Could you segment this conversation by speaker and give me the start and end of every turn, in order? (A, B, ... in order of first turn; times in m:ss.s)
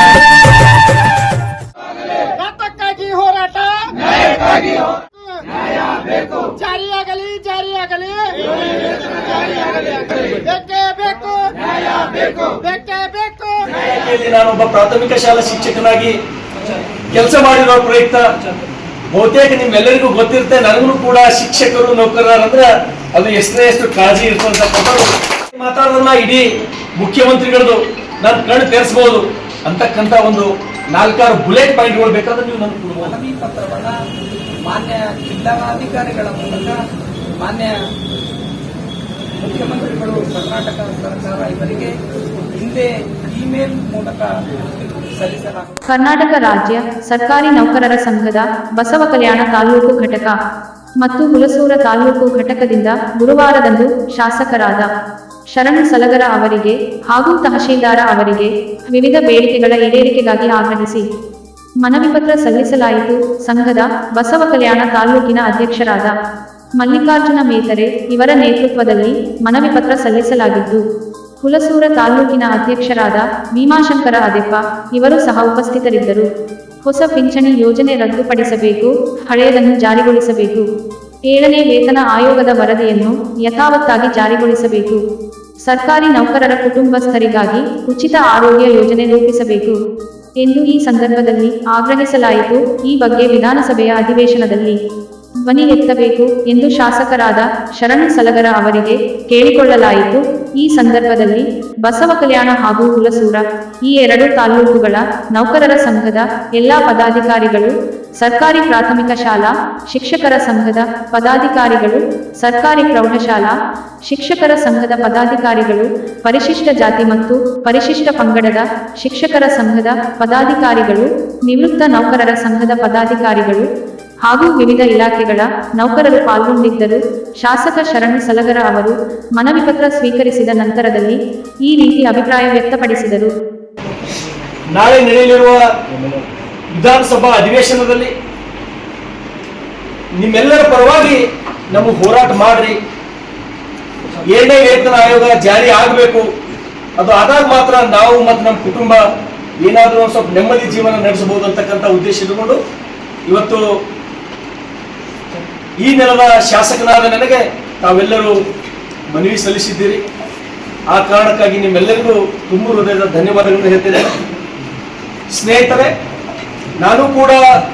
0:02.2-0:05.4 A
0:02.6-0:03.5 B
0:06.4-0:13.7 A
0:07.2-0:08.0 B
0:10.1-0:11.3 B
0:12.7-0:13.3 B
0:13.6-0:16.2 C
0:17.1-0:18.3 C
0:19.1-0:33.1 C
0:33.0-0:33.9 B
0:34.7-0:36.8 B
0:37.4-0:37.8 B
0:39.4-0:41.9 B
0:42.5-0:45.7 B
0:45.9-0:50.3 D
0:51.0-0:54.9 D
0:55.5-1:01.0 D
1:01.8-1:06.1 D
1:06.8-1:10.8 D
1:11.4-1:16.2 D
1:16.8-1:20.6 D
1:21.3-1:25.0 D
1:25.7-1:29.8 D
1:30.4-1:34.8 D
1:35.5-1:53.5 D
1:54.0-2:03.6 D
2:04.3-2:13.3 D
2:14.7-2:15.6 C
2:16.7-2:18.1 C
2:20.2-2:22.8 C
2:24.2-2:26.3 C
2:27.0-2:29.0 C
2:29.6-2:32.6 C
2:33.2-2:33.8 C
2:35.8-2:38.4 C
2:39.1-2:40.0 C
2:40.9-2:44.1 C
2:45.3-2:45.9 C
2:46.8-2:47.4 C